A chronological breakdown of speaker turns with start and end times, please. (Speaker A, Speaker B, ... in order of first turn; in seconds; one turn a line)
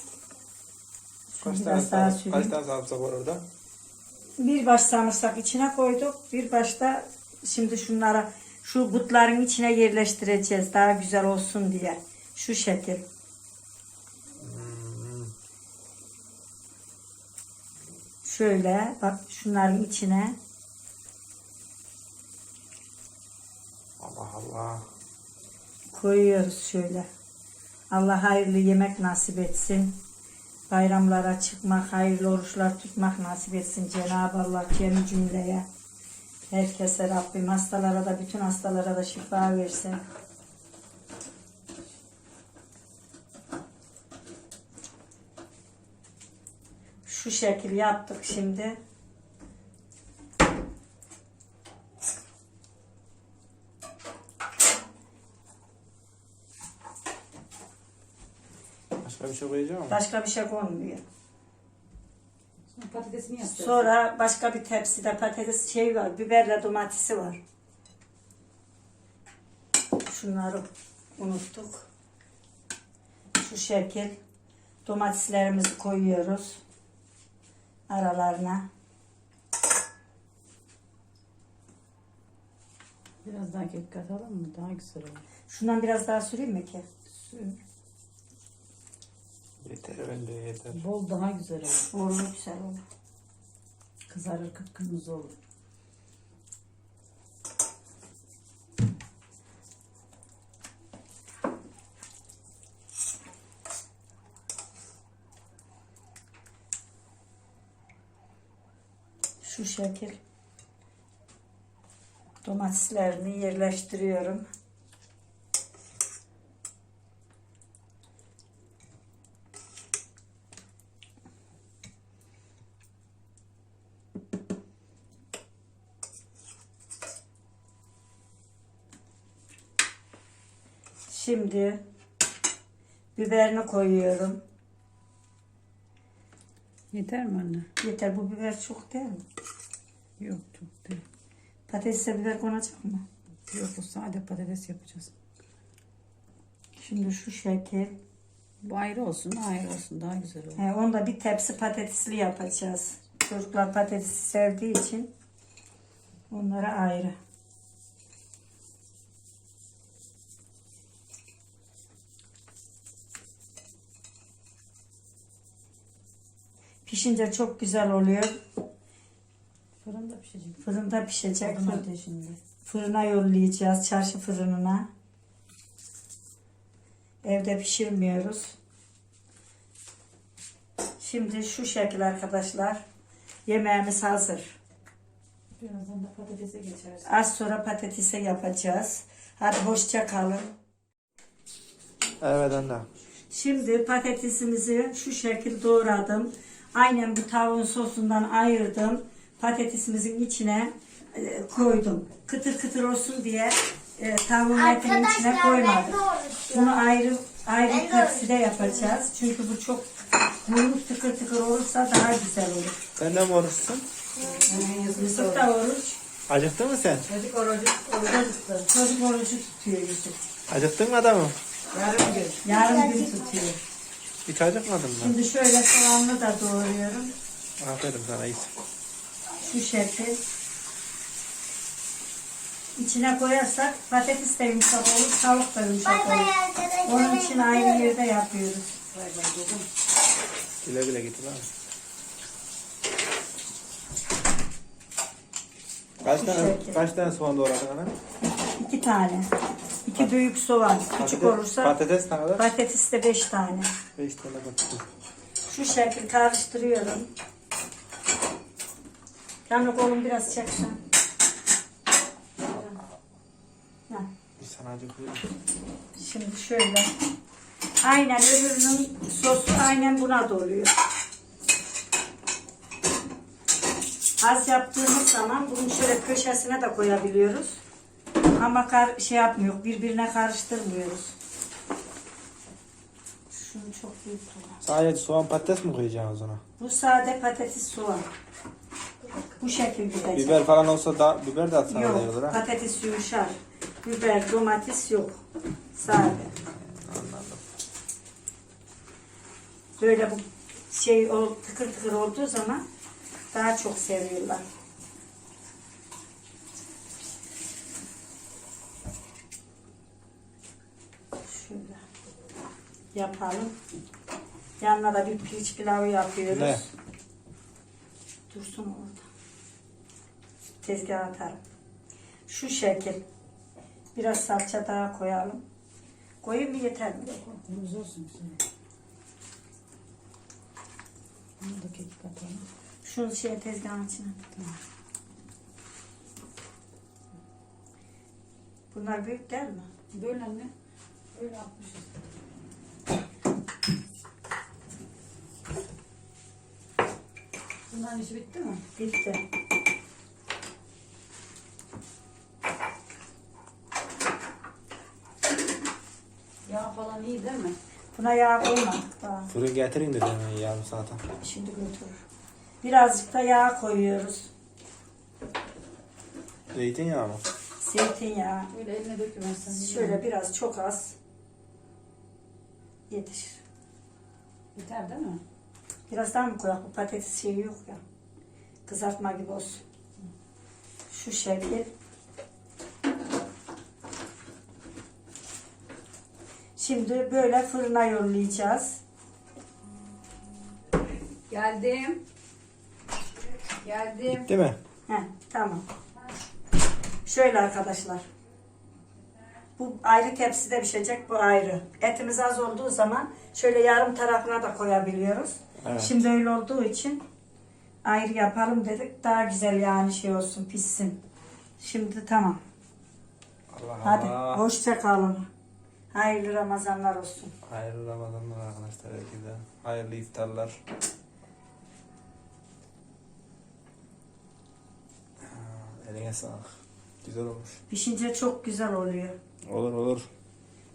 Speaker A: 1.3-2.5
Speaker B: 1.4-3.5
Speaker A: 4.4-13.0
Speaker B: 14.4-15.3
Speaker A: 18.2-20.4
Speaker B: 24.0-24.8
Speaker A: 25.9-27.1
Speaker A: 27.9-30.0
Speaker A: 30.7-35.6
Speaker A: 36.5-40.0
Speaker A: 47.0-48.8
Speaker B: 59.0-60.0
Speaker A: 59.9-61.0
Speaker C: 62.7-63.9
Speaker A: 63.4-67.4
Speaker A: 70.1-71.9
Speaker A: 73.3-74.2
Speaker A: 74.8-76.6
Speaker A: 77.9-78.7
Speaker C: 83.2-85.2
Speaker A: 85.5-86.8
Speaker C: 87.1-87.6
Speaker B: 89.6-90.8
Speaker C: 90.7-91.9
Speaker A: 91.9-92.8
Speaker C: 94.1-95.3
Speaker A: 109.4-110.2
Speaker A: 112.4-114.5
Speaker A: 131.1-131.8
Speaker A: 133.2-134.4
Speaker C: 136.9-137.7
Speaker A: 137.8-139.2
Speaker C: 140.2-141.0
Speaker A: 141.7-143.0
Speaker C: 143.5-145.1
Speaker A: 146.8-147.9
Speaker C: 148.6-150.6
Speaker A: 150.6-155.1
Speaker A: 156.3-157.1
Speaker A: 166.8-168.4
Speaker C: 169.8-170.6
Speaker A: 170.6-171.8
Speaker C: 171.4-172.4
Speaker A: 172.6-174.9
Speaker A: 177.2-178.6
Speaker A: 181.0-182.8
Speaker A: 183.4-184.6
Speaker C: 185.6-187.1
Speaker A: 187.0-190.5
Speaker B: 192.2-192.9
Speaker A: 193.3-209.9
Speaker D: 204.5-206.8
Speaker D: 207.7-208.9
Speaker A: 210.4-212.8
Speaker B: 213.0-213.8
Speaker D: 214.2-214.7
Speaker C: 214.4-215.5
Speaker A: 214.9-216.0
Speaker B: 216.3-217.1
Speaker C: 217.1-218.7
Speaker A: 218.7-220.2
Speaker B: 220.5-221.4
Speaker C: 221.7-222.4
Speaker A: 222.4-223.6
Speaker D: 222.5-223.2
Speaker B: 224.2-225.2
Speaker A: 225.0-227.1
Speaker B: 227.6-228.5
Speaker A: 229.4-230.2
Speaker A: 232.8-236.3
Speaker D: 235.8-237.9
Speaker A: 236.8-238.7
Speaker C: 238.9-239.7
Speaker B: 240.6-241.5
Speaker B: 246.0-247.9
Speaker A: 246.1-246.8
Speaker A: 248.6-249.3
Speaker A: 249.8-251.8
Speaker B: 250.9-252.5
Speaker A: 252.3-253.7
Speaker B: 254.0-254.8
Speaker A: 255.5-257.1
Speaker A: 259.4-260.8
Speaker B: 264.4-265.3
Speaker A: 265.9-266.9
Speaker A: 267.8-270.7
Speaker A: 274.2-277.6
Speaker A: 278.4-281.1
Speaker A: 283.3-284.6
Speaker B: 284.6-286.4
Speaker A: 286.6-288.1
Speaker A: 289.4-290.4
Speaker B: 290.1-292.4
Speaker A: 291.7-296.3
Speaker B: 296.5-297.4
Speaker A: 299.8-302.6
Speaker A: 303.3-304.4
Speaker A: 311.3-311.8
Speaker A: 312.9-313.6
Speaker A: 314.6-316.7
Speaker B: 316.3-316.6
Speaker A: 318.3-319.1
Speaker A: 320.6-321.4
Speaker A: 322.3-323.0
Speaker A: 323.9-325.4
Speaker A: 326.2-327.2
Speaker C: 327.1-328.4
Speaker C: 331.4-332.5
Speaker A: 332.8-334.2
Speaker A: 338.7-339.7
Speaker C: 339.9-340.5
Speaker C: 341.1-341.9
Speaker C: 347.7-348.6
Speaker A: 348.8-349.2
Speaker C: 356.4-357.6
Speaker A: 357.9-359.3
Speaker B: 359.3-361.0
Speaker A: 361.2-362.0
Speaker A: 362.6-364.3
Speaker B: 366.5-367.2
Speaker A: 367.6-368.5
Speaker C: 368.5-370.0
Speaker A: 369.5-370.9
Speaker A: 372.9-373.4
Speaker C: 374.5-375.2
Speaker A: 375.9-377.8
Speaker A: 378.6-379.6
Speaker A: 380.9-381.7
Speaker A: 386.6-388.8
Speaker C: 391.3-392.0
Speaker C: 393.6-394.3
Speaker B: 394.1-394.6
Speaker A: 394.9-395.6
Speaker A: 397.0-398.1
Speaker A: 399.6-407.0
Speaker B: 405.6-406.0
Speaker A: 407.8-411.0
Speaker A: 411.6-412.4
Speaker B: 413.5-414.4
Speaker A: 413.8-415.3
Speaker A: 415.9-417.3
Speaker B: 417.4-420.6
Speaker B: 425.2-427.6
Speaker A: 427.7-429.1
Speaker B: 429.4-430.1